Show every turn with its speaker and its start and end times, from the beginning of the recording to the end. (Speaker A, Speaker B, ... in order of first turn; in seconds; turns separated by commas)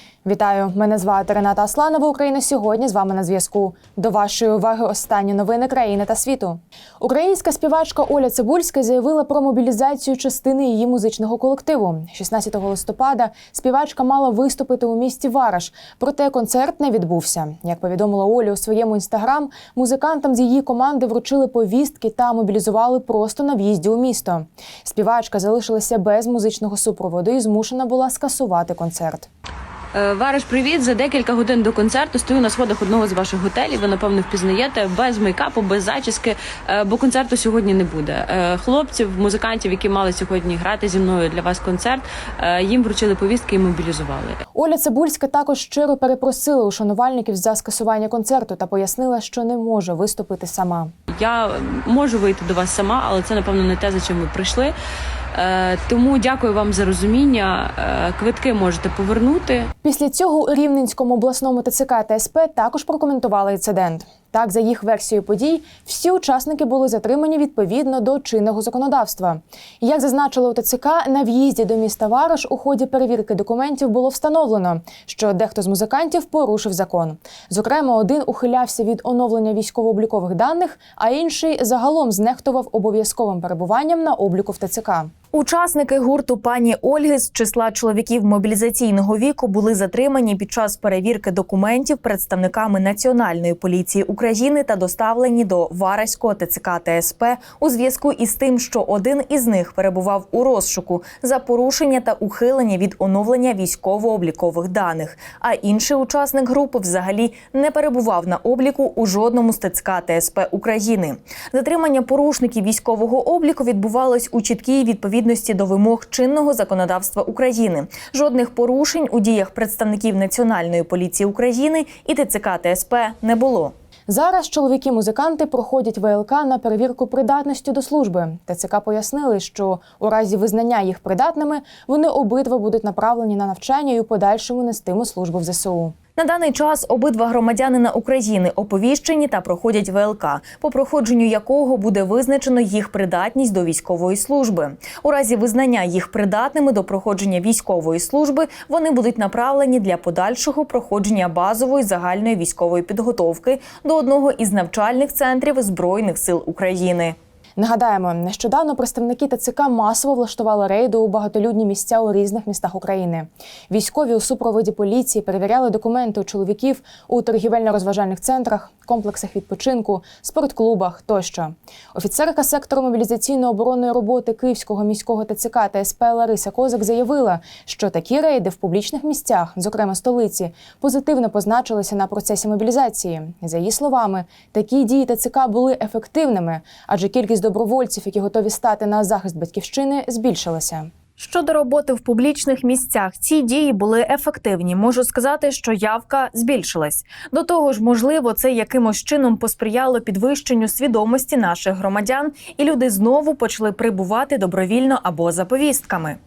Speaker A: 0.2-29.3, Speaker B: 29.9-44.4, Speaker A: 44.5-50.9, Speaker B: 51.1-54.7, Speaker B: 55.3-59.7, Speaker A: 59.8-85.1, Speaker C: 85.3-123.7, Speaker A: 124.1-135.9, Speaker C: 136.2-157.2, Speaker A: 157.6-190.9, Speaker C: 191.2-206.2